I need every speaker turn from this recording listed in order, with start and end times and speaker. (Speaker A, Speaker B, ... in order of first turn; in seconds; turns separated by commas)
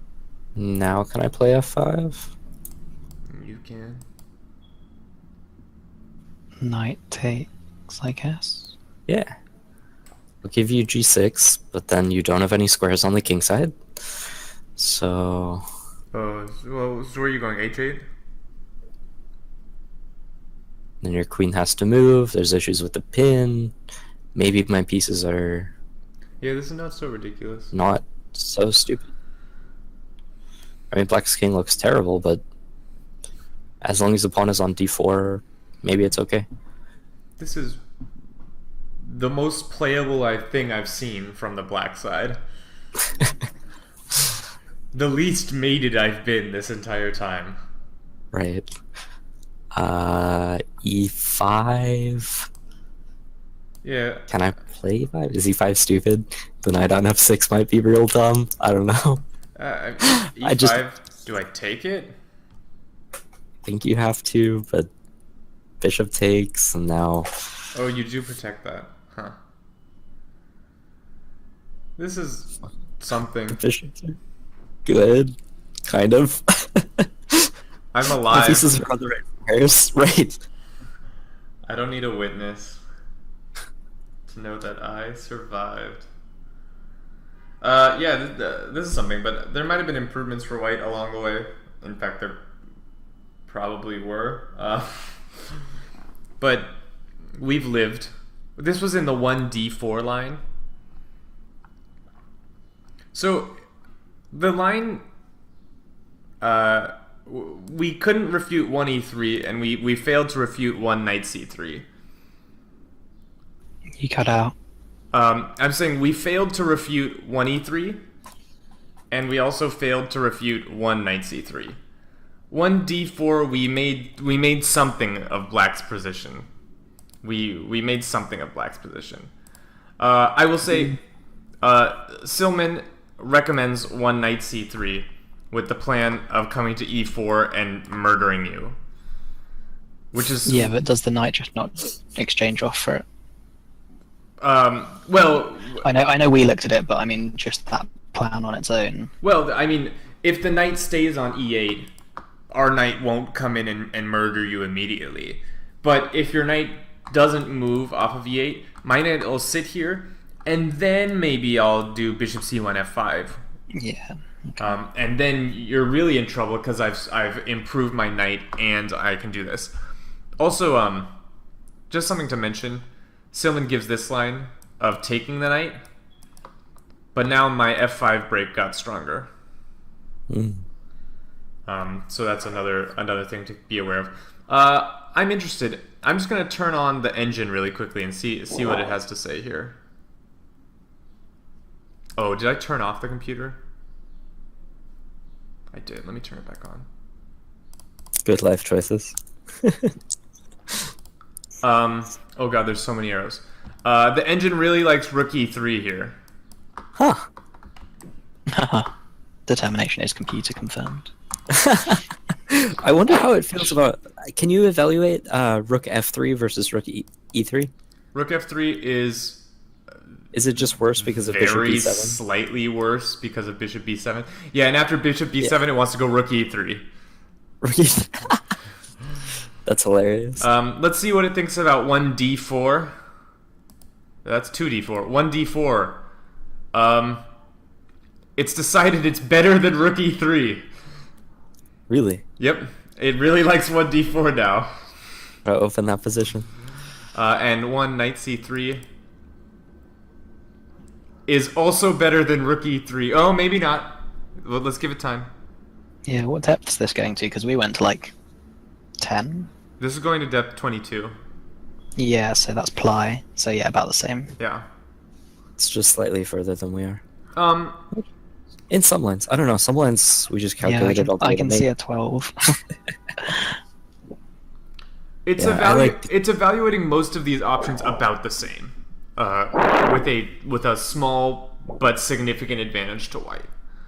Speaker A: 0.6-2.3, Speaker B: 3.3-4.0, Speaker C: 6.6-8.8, Speaker A: 10.4-13.8, Speaker A: 14.8-15.6, Speaker B: 16.1-18.1, Speaker A: 21.0-23.7, Speaker A: 24.4-25.7, Speaker B: 26.4-27.7, Speaker A: 27.7-29.1, Speaker A: 30.9-32.4, Speaker A: 33.8-36.5, Speaker B: 37.4-37.8, Speaker B: 39.0-42.4, Speaker B: 44.9-47.6, Speaker A: 48.3-48.7, Speaker A: 49.7-52.5, Speaker B: 53.8-54.3, Speaker A: 54.3-59.2, Speaker B: 59.6-62.1, Speaker A: 60.0-60.8, Speaker A: 63.6-64.9, Speaker A: 65.8-67.5, Speaker B: 67.7-69.4, Speaker B: 72.0-73.6, Speaker A: 73.5-74.2, Speaker A: 74.8-75.4, Speaker A: 75.9-77.5, Speaker B: 77.9-78.7, Speaker A: 78.3-80.4, Speaker B: 81.7-82.8, Speaker B: 84.3-86.1, Speaker B: 87.6-92.4, Speaker B: 93.5-95.6, Speaker B: 96.4-96.8, Speaker B: 97.4-100.4, Speaker B: 103.1-103.6, Speaker B: 104.3-105.0, Speaker B: 106.4-111.9, Speaker C: 114.0-114.5, Speaker B: 115.1-118.0, Speaker B: 119.1-121.8, Speaker B: 122.5-126.5, Speaker B: 127.2-129.3, Speaker B: 130.0-131.0, Speaker B: 131.6-138.8, Speaker B: 140.1-140.8, Speaker C: 140.4-143.0, Speaker B: 144.4-145.9, Speaker C: 145.8-149.1, Speaker B: 149.2-151.9, Speaker B: 152.5-163.4, Speaker C: 163.7-164.8, Speaker B: 164.6-169.7, Speaker B: 170.4-171.1, Speaker B: 171.9-175.8, Speaker B: 177.2-179.3, Speaker A: 180.3-180.6, Speaker B: 181.7-189.8, Speaker B: 192.2-193.6, Speaker B: 195.7-196.9, Speaker A: 198.2-199.9, Speaker B: 201.6-206.2, Speaker A: 207.0-207.3, Speaker C: 208.5-208.9, Speaker C: 209.5-211.1, Speaker A: 211.5-217.7, Speaker B: 218.1-219.5, Speaker A: 220.3-222.2, Speaker B: 221.1-226.8, Speaker A: 227.6-228.4, Speaker A: 229.7-230.5, Speaker B: 230.4-232.9, Speaker B: 234.2-236.1, Speaker B: 236.7-237.3, Speaker B: 238.4-240.7, Speaker A: 241.9-242.2, Speaker B: 242.4-244.7, Speaker A: 245.5-246.5, Speaker B: 247.1-248.8, Speaker B: 251.3-255.3, Speaker C: 256.1-258.1, Speaker C: 259.0-259.5, Speaker B: 259.8-261.1, Speaker C: 262.0-264.3, Speaker B: 264.4-264.7, Speaker A: 265.6-267.0, Speaker B: 267.4-267.8, Speaker A: 268.7-271.7, Speaker C: 270.6-272.3, Speaker B: 275.2-283.5, Speaker A: 275.4-276.1